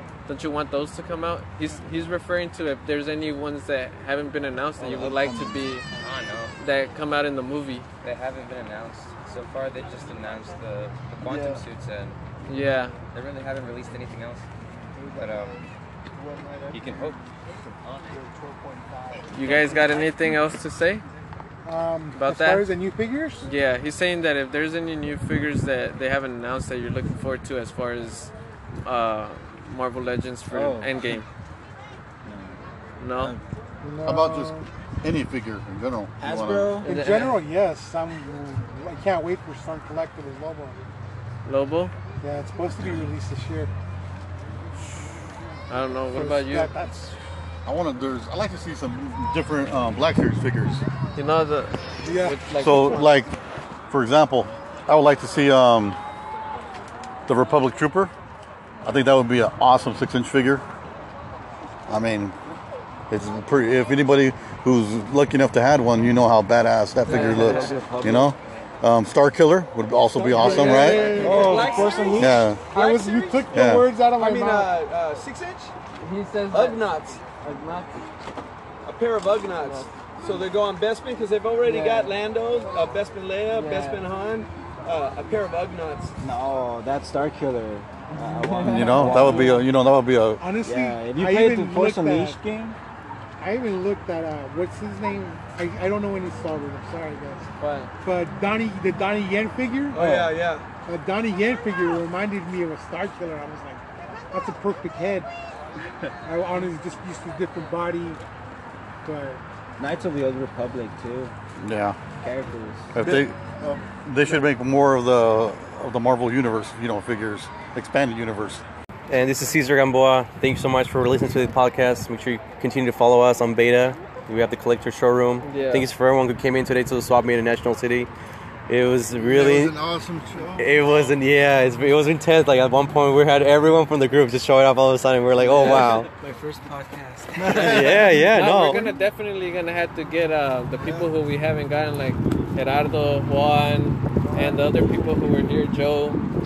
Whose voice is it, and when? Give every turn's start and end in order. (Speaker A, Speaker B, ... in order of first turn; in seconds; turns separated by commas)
Speaker A: 0.3-5.8, Speaker B: 4.8-5.3, Speaker C: 5.9-6.5, Speaker A: 6.6-7.9, Speaker C: 8.0-12.2, Speaker B: 11.2-11.7, Speaker A: 12.5-13.0, Speaker C: 13.1-14.4, Speaker B: 14.9-20.0, Speaker C: 15.1-15.5, Speaker C: 16.7-17.2, Speaker A: 19.3-21.0, Speaker C: 19.4-20.3, Speaker D: 21.6-23.5, Speaker A: 22.1-22.7, Speaker A: 23.4-31.2, Speaker E: 30.5-31.2, Speaker E: 32.2-32.6, Speaker A: 33.0-33.3, Speaker E: 33.1-33.4, Speaker D: 33.8-34.7, Speaker F: 34.0-36.8, Speaker E: 36.2-36.9, Speaker A: 36.8-37.4, Speaker D: 36.8-40.8, Speaker A: 41.4-41.9, Speaker D: 42.2-43.7, Speaker A: 45.7-46.7, Speaker D: 46.1-47.2, Speaker F: 47.6-50.8, Speaker A: 51.1-53.2, Speaker D: 52.0-52.4, Speaker F: 52.5-53.3, Speaker F: 53.9-56.0, Speaker F: 57.3-58.1, Speaker F: 58.8-60.6, Speaker F: 61.9-62.4, Speaker F: 63.1-71.2, Speaker E: 67.0-68.7, Speaker A: 67.4-67.7, Speaker D: 70.2-74.7, Speaker B: 70.3-71.8, Speaker E: 70.3-72.4, Speaker G: 70.6-73.5, Speaker F: 72.2-72.6, Speaker F: 73.5-73.9, Speaker G: 74.2-75.7, Speaker A: 76.0-78.0, Speaker G: 76.5-77.2, Speaker G: 78.8-86.1, Speaker A: 79.6-80.3, Speaker A: 81.7-82.0, Speaker E: 81.7-82.1, Speaker A: 83.5-84.0, Speaker E: 86.2-89.6, Speaker D: 88.1-89.6, Speaker A: 88.6-89.6, Speaker F: 88.6-90.4, Speaker D: 90.4-92.4, Speaker E: 90.6-92.8, Speaker D: 93.4-97.5, Speaker A: 97.6-97.9, Speaker D: 98.0-100.3, Speaker G: 99.9-100.7, Speaker D: 100.8-105.3, Speaker D: 106.2-108.2, Speaker D: 109.0-109.4, Speaker E: 109.8-111.3, Speaker F: 111.6-112.0, Speaker E: 112.2-112.9, Speaker F: 112.9-113.4, Speaker B: 113.0-114.5, Speaker F: 113.9-118.6, Speaker H: 119.1-128.1, Speaker A: 125.4-125.9, Speaker H: 128.7-129.8, Speaker B: 129.1-131.1, Speaker H: 130.6-136.1, Speaker E: 135.3-138.6, Speaker B: 137.4-138.9, Speaker H: 137.5-138.8, Speaker A: 137.7-146.2